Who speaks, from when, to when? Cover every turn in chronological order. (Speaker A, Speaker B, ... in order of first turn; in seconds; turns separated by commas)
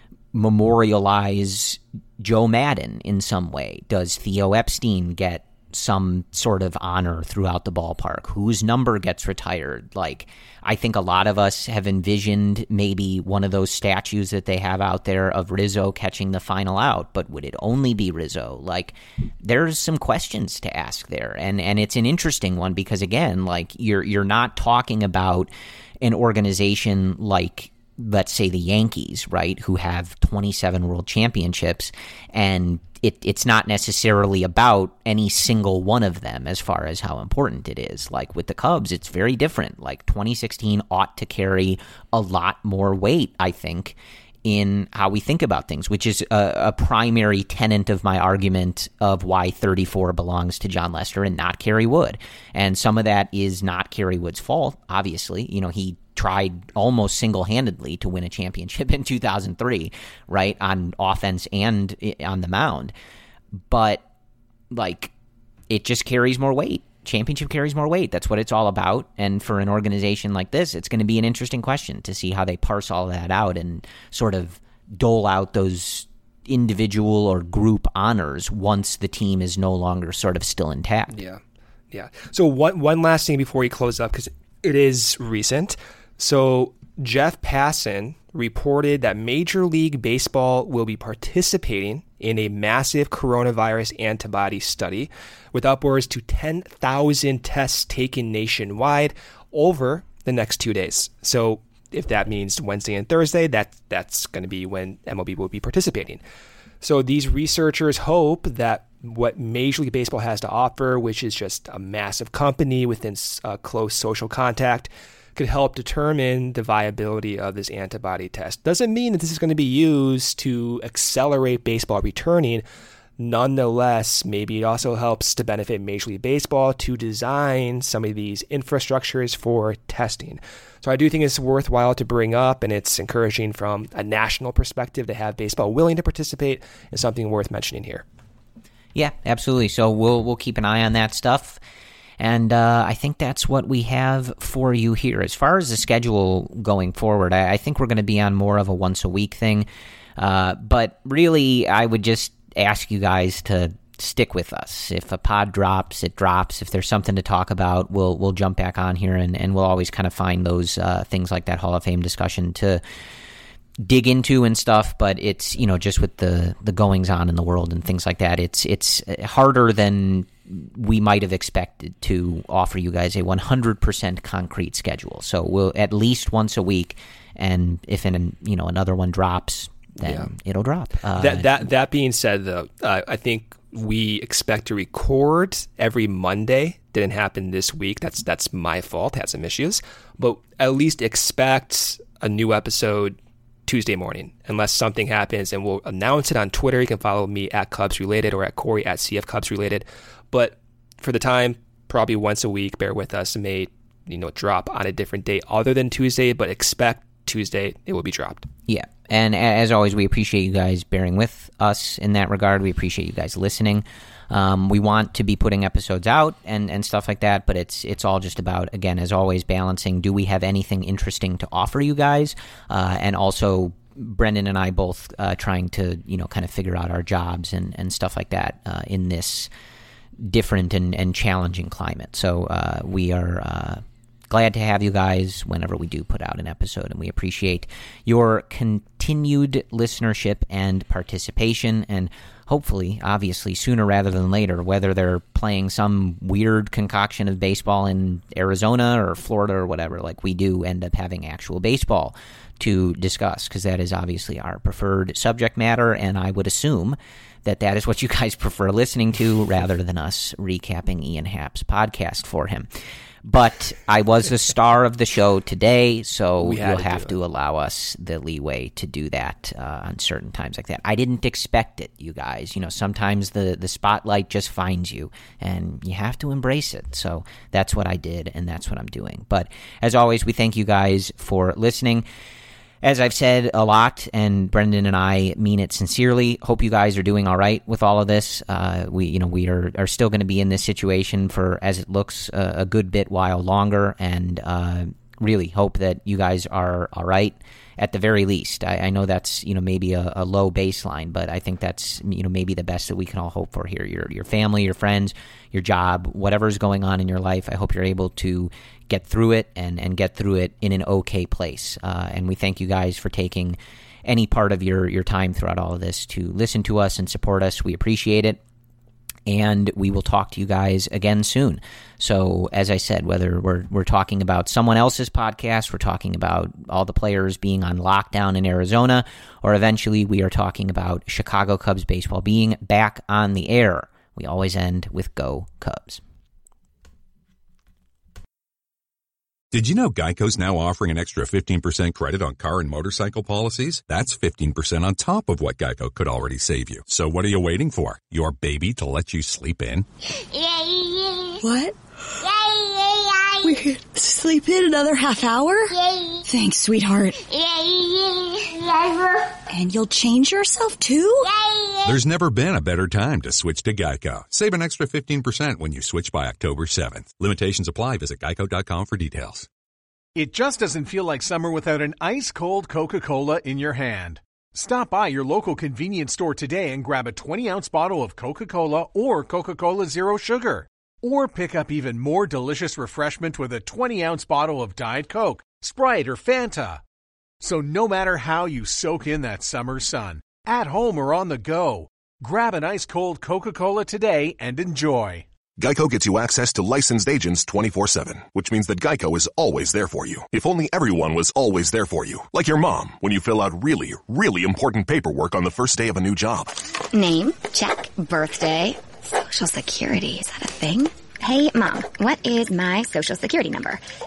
Speaker A: 0.3-25.5, Speaker A: 26.0-62.9, Speaker A: 63.7-64.0, Speaker A: 64.7-65.1, Speaker A: 65.7-81.1, Speaker B: 81.1-106.2, Speaker B: 106.8-122.6, Speaker B: 123.2-138.0, Speaker A: 138.9-141.6, Speaker A: 142.2-162.8, Speaker A: 163.8-181.6, Speaker B: 180.0-180.3, Speaker B: 181.1-208.5, Speaker A: 208.7-229.5, Speaker A: 230.2-262.7, Speaker A: 263.2-282.0, Speaker B: 266.4-267.1, Speaker A: 282.8-318.4, Speaker A: 319.3-336.0, Speaker C: 339.5-349.9, Speaker D: 351.4-351.7, Speaker D: 353.5-355.7, Speaker D: 356.2-357.2, Speaker E: 357.5-358.3, Speaker D: 359.5-361.3, Speaker C: 361.9-369.5, Speaker F: 370.1-386.8, Speaker F: 387.4-395.2, Speaker G: 395.6-406.6, Speaker E: 406.9-413.8